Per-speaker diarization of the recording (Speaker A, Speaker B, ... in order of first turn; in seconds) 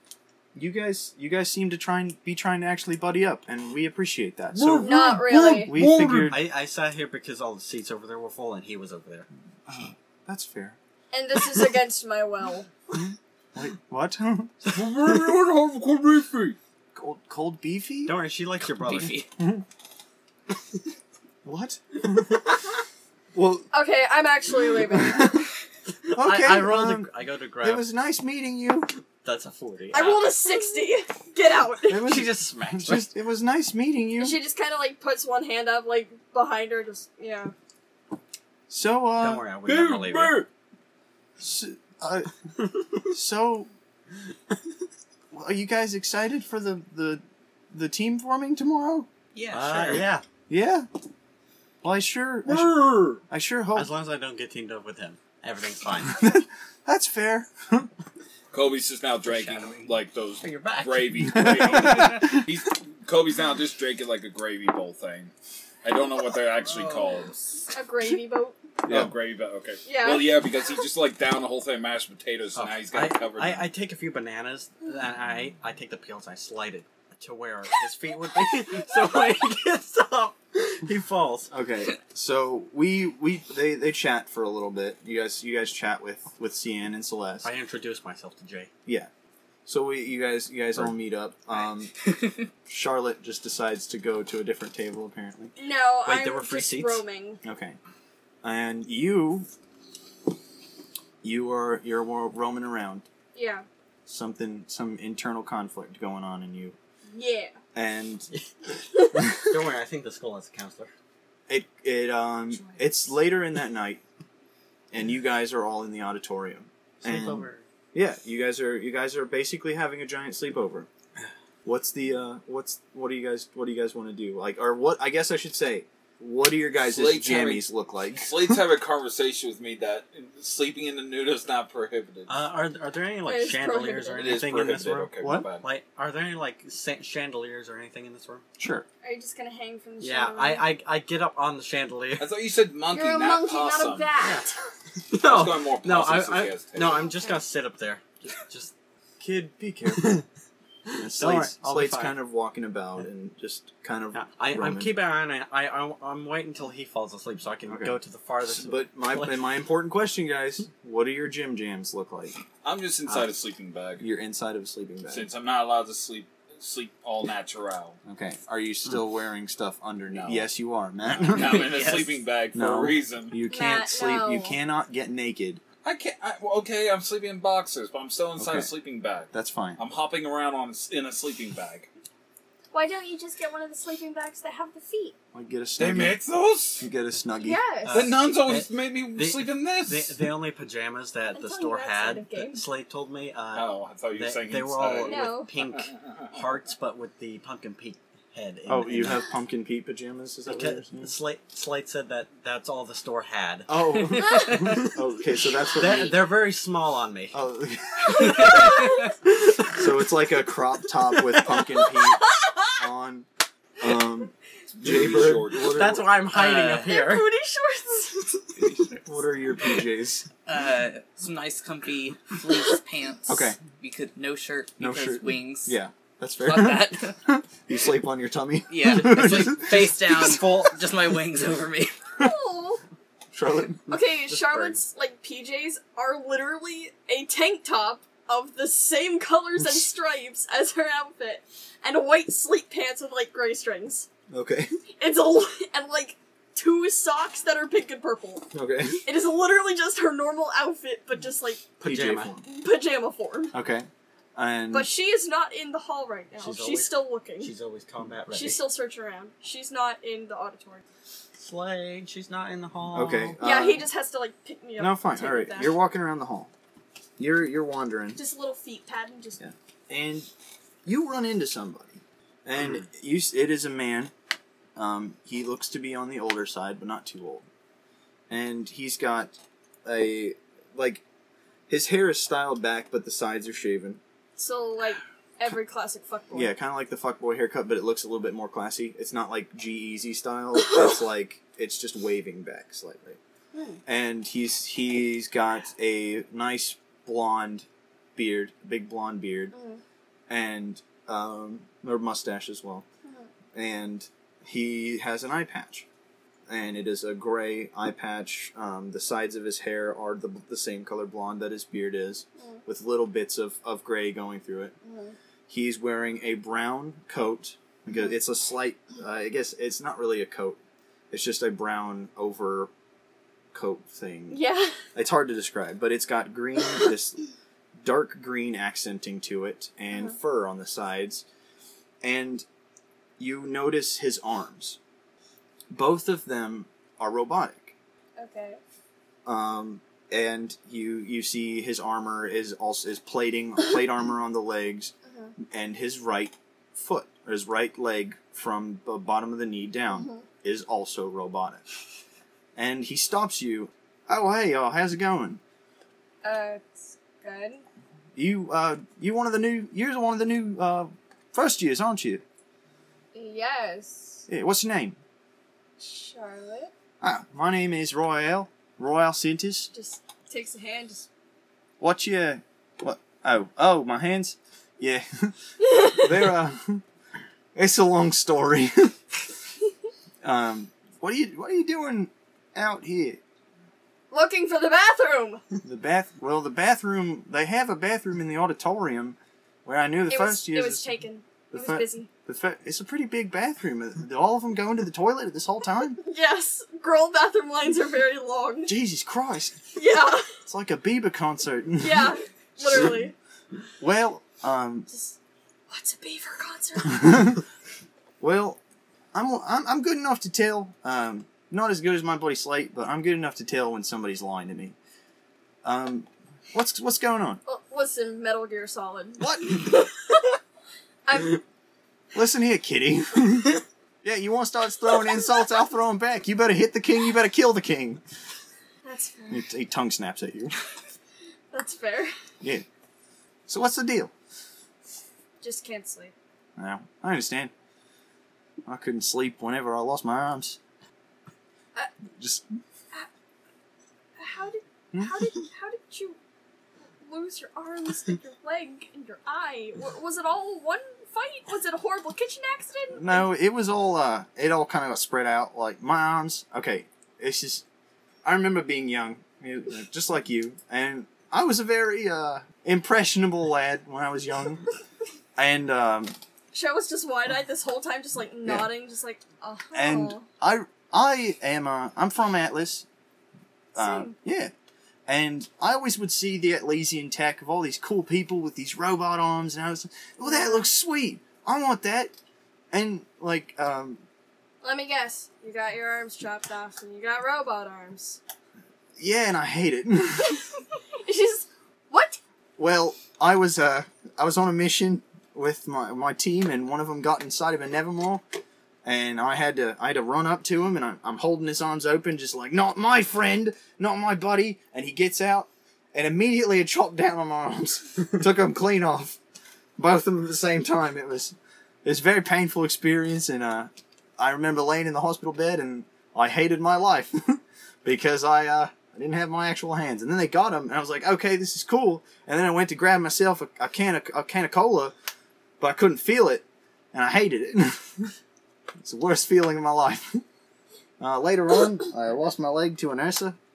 Speaker A: 0.6-6.4, 9.7-10.8, 12.9-14.6, 16.9-18.1, 19.4-19.6, 21.4-22.6, 23.3-23.7, 24.9-25.5, 26.1-28.9, 31.9-34.4, 38.7-39.5, 41.4-42.3, 43.1-43.7, 45.3-49.1, 50.5-50.9, 51.8-53.9, 56.1-57.9, 61.2-62.4, 68.9-69.1, 81.5-87.5, 89.7-91.9, 92.7-95.5, 97.4-97.8, 98.4-99.5, 101.2-103.1, 104.1-106.8, 107.7-108.3, 111.5-114.0, 114.9-120.9, 121.7-128.6, 135.2-135.5, 138.6-138.9, 149.6-150.2, 151.0-155.0, 157.7-162.4, 164.0-165.3, 168.1-171.7, 172.5-175.6, 178.4-178.7, 179.3-179.8, 185.3-186.2, 186.8-187.6, 198.7-201.1, 203.7-206.3, 207.3-208.8, 209.7-213.3, 213.8-216.1, 219.1-220.3, 223.3-223.6, 224.8-230.4, 233.3-233.9, 239.6-239.9, 244.3-244.7, 248.5-249.1, 251.8-252.4, 253.5-254.9, 262.9-263.9, 264.8-266.5, 267.2-268.2, 269.4-270.3, 270.9-274.1, 274.8-277.5, 278.3-281.0, 281.7-284.0, 286.3-293.2, 293.9-299.5, 300.3-302.9, 303.5-305.9, 306.5-314.8, 315.5-320.6, 321.1-322.7, 323.5-324.4, 324.9-327.2, 327.8-331.3, 332.0-332.5, 333.2-334.8, 335.7-337.7, 339.3-351.6, 352.6-355.4, 358.1-362.2, 364.3-365.0, 367.0-369.7, 371.8-376.8, 377.6-379.0, 380.2-383.2, 385.6-390.9, 391.5-396.0, 398.7-399.6, 400.4-403.1, 403.8-404.9, 406.9-407.2, 408.2-408.6, 409.1-414.8, 415.6-417.4, 419.2-419.7, 422.1-428.0, 429.3-430.5, 433.5-434.1, 436.6-437.5, 438.7-440.6, 442.2-442.5, 452.9-457.6, 458.2-464.6, 465.4-466.1, 468.4-468.7, 469.7-472.9, 473.8-474.5, 475.1-482.1, 482.7-484.0, 489.0-490.4, 492.6-498.2, 498.8-509.2, 509.8-525.0, 525.6-528.1, 528.8-530.2, 531.0-533.4
Speaker B: 4.5-6.4, 14.7-16.6, 39.7-40.5, 52.5-53.2, 58.5-65.3, 65.8-67.3, 68.9-73.7, 126.8-132.3, 134.2-135.7, 142.2-144.1, 145.1-147.1, 162.6-164.1, 165.1-168.0, 170.1-170.4, 171.1-173.4, 175.8-181.9, 185.8-186.8, 187.9-190.3, 193.5-195.3, 214.7-215.8
Speaker C: 4.8-5.7, 11.1-12.7, 23.7-25.4, 29.9-32.1, 34.2-37.5, 67.7-68.6, 69.9-70.4, 95.6-97.4, 103.3-103.7, 107.1-107.5, 133.3-134.3, 139.0-140.7, 142.9-144.5, 146.9-147.3, 173.5-174.6, 182.7-185.2, 187.4-188.1, 191.3-192.6, 195.0-195.5, 204.2-204.9, 208.1-209.1, 211.3-212.8, 216.9-218.9, 232.2-232.8, 233.9-244.1, 245.0-248.5, 249.1-251.7, 252.5-253.6, 254.7-257.5, 258.3-260.8, 263.4-265.7, 268.2-269.4, 284.4-286.5, 293.5-293.8, 299.5-299.8, 303.1-303.3, 314.8-315.2, 324.3-324.7, 338.2-338.6, 345.1-345.3, 349.9-350.2, 356.2-357.6, 363.1-364.3, 365.8-366.7, 369.7-371.1, 375.7-376.1, 384.1-385.4, 390.1-392.1, 396.0-398.7, 399.8-400.3, 401.8-403.1, 404.9-405.1, 405.7-407.4, 417.4-420.4, 421.1-421.4, 428.8-429.4, 431.5-432.1, 435.4-436.1, 444.2-446.2, 447.0-453.3, 466.5-470.2, 473.8-474.1, 480.3-480.6, 484.6-488.2, 491.0-492.2
Speaker D: 6.2-9.3, 18.1-19.2, 26.0-27.9, 29.2-30.2, 32.0-33.1, 39.2-40.4, 49.5-50.2, 53.8-56.2, 59.4-59.8, 60.4-61.1, 72.5-81.5, 87.4-88.7, 96.0-97.0, 109.1-110.9, 117.0-117.7, 132.3-138.4, 140.0-142.3, 144.2-144.5, 145.1-150.2, 150.9-152.2, 154.1-159.4, 187.8-199.2, 200.5-205.0, 205.7-207.4, 215.7-217.3, 230.1-230.8, 234.3-234.8, 251.8-252.3, 256.4-258.6, 261.4-263.4
Speaker E: 18.9-19.3, 49.3-50.1, 66.7-67.7, 92.1-92.5, 171.3-172.1, 216.3-216.9, 218.6-219.0, 220.5-225.8, 226.4-227.2, 228.7-232.0